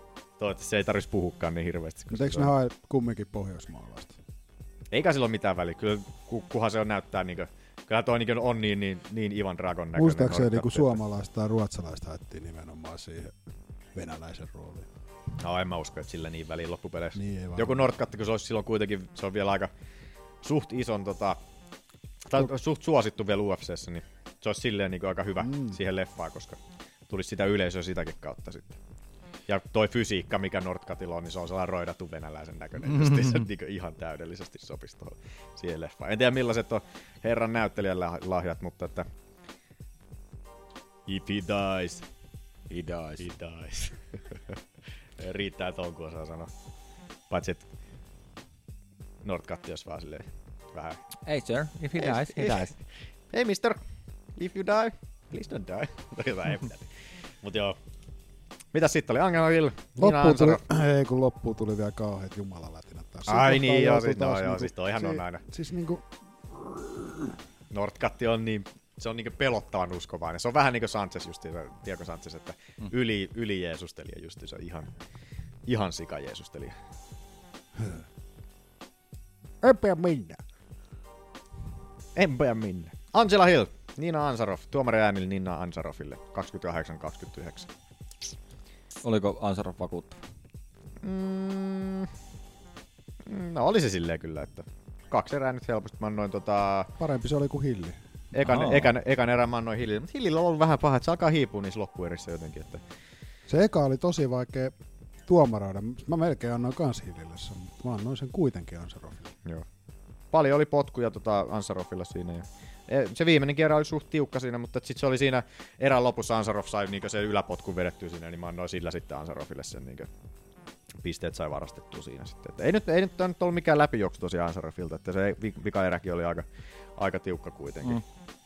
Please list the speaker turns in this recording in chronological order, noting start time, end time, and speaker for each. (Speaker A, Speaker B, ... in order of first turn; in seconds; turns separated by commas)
Speaker A: 0.4-2.5, Speaker B: 2.1-4.2, Speaker A: 4.9-11.0, Speaker B: 9.9-13.3, Speaker B: 13.9-14.9, Speaker A: 15.4-19.7, Speaker B: 17.1-17.9, Speaker A: 20.4-21.4, Speaker A: 22.3-28.8, Speaker B: 25.4-25.8, Speaker A: 29.5-39.1, Speaker C: 32.9-33.4, Speaker A: 41.1-42.1, Speaker C: 42.7-43.3, Speaker A: 43.2-44.3, Speaker A: 45.2-46.5, Speaker A: 47.3-47.7, Speaker A: 49.2-51.0, Speaker C: 51.3-52.7, Speaker A: 52.0-52.8, Speaker A: 53.3-53.8, Speaker A: 54.4-56.9, Speaker A: 57.4-57.8, Speaker A: 58.7-60.6, Speaker B: 60.0-67.3, Speaker A: 63.3-65.4, Speaker A: 67.7-74.9, Speaker A: 75.7-76.8, Speaker B: 79.6-80.4, Speaker A: 82.2-87.7, Speaker C: 89.0-90.2, Speaker A: 91.0-92.1, Speaker A: 93.3-96.9, Speaker B: 97.0-98.0, Speaker A: 98.3-102.8, Speaker C: 98.4-98.9, Speaker B: 103.5-104.7, Speaker B: 105.3-109.3, Speaker A: 110.3-120.1, Speaker A: 121.0-128.0